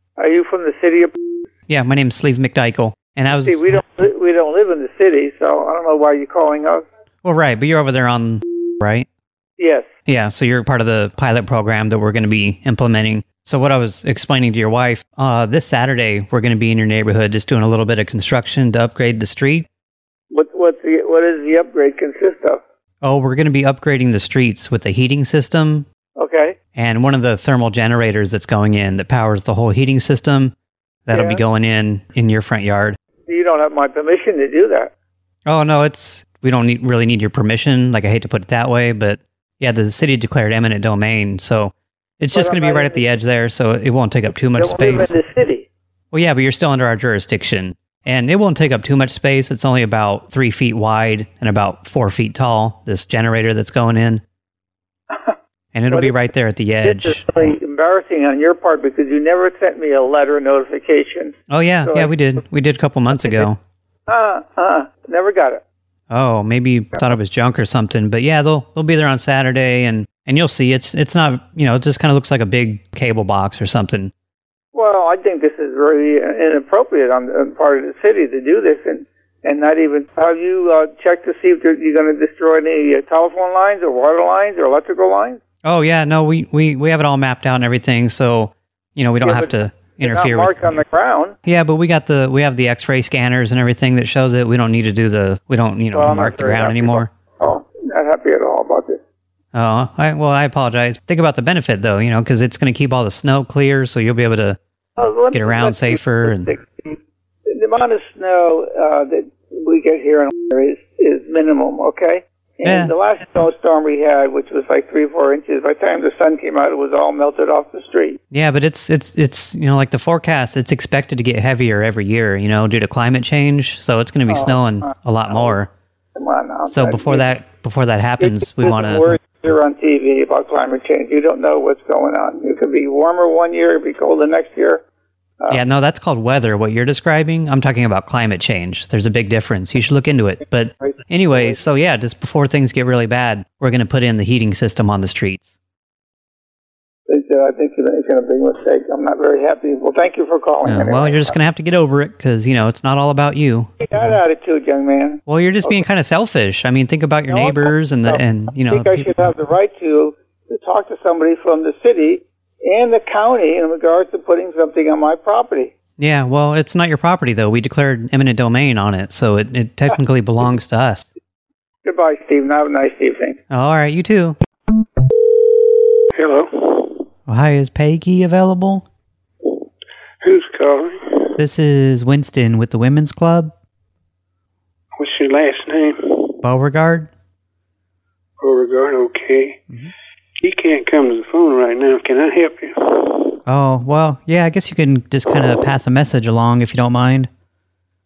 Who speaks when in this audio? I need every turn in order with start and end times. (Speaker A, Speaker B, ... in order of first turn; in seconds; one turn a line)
Speaker A: 0.2-1.1
Speaker B: 1.7-3.6
Speaker A: 3.3-6.8
Speaker B: 7.2-9.1
Speaker A: 9.6-9.9
Speaker B: 10.1-19.7
Speaker A: 20.3-22.6
Speaker B: 23.0-25.9
Speaker A: 26.2-26.6
Speaker B: 26.8-30.5
Speaker B: 31.1-33.0
Speaker A: 31.1-31.4
Speaker A: 33.3-34.9
Speaker B: 35.5-45.1
Speaker A: 42.3-43.0
Speaker A: 44.5-45.7
Speaker B: 46.1-54.2
Speaker B: 55.7-57.2
Speaker A: 55.9-56.2
Speaker A: 56.8-62.3
Speaker B: 61.5-63.6
Speaker A: 63.1-63.5
Speaker A: 64.1-65.6
Speaker B: 66.1-74.1
Speaker A: 74.7-85.4
Speaker B: 85.6-90.8
Speaker A: 89.2-91.4
Speaker B: 91.5-97.1
Speaker A: 95.9-99.0
Speaker B: 99.5-104.6
Speaker A: 105.0-107.0
Speaker B: 105.3-106.5
Speaker A: 107.5-118.2
Speaker B: 112.6-112.9
Speaker B: 118.3-125.7
Speaker A: 124.3-125.6
Speaker A: 126.2-127.3
Speaker B: 126.7-129.2
Speaker A: 128.2-134.8
Speaker B: 135.5-145.6
Speaker A: 140.8-141.6
Speaker A: 147.1-151.4
Speaker B: 150.7-153.7
Speaker A: 153.8-155.8
Speaker B: 155.3-159.1
Speaker A: 157.3-165.7
Speaker B: 166.0-171.1
Speaker A: 171.8-173.4
Speaker B: 173.5-174.4
Speaker C: 176.1-177.1
Speaker B: 177.3-178.8
Speaker C: 180.2-181.3
Speaker B: 181.4-183.5
Speaker C: 185.0-186.4
Speaker B: 186.4-187.1
Speaker C: 188.4-189.6
Speaker C: 190.4-193.4
Speaker B: 193.5-197.3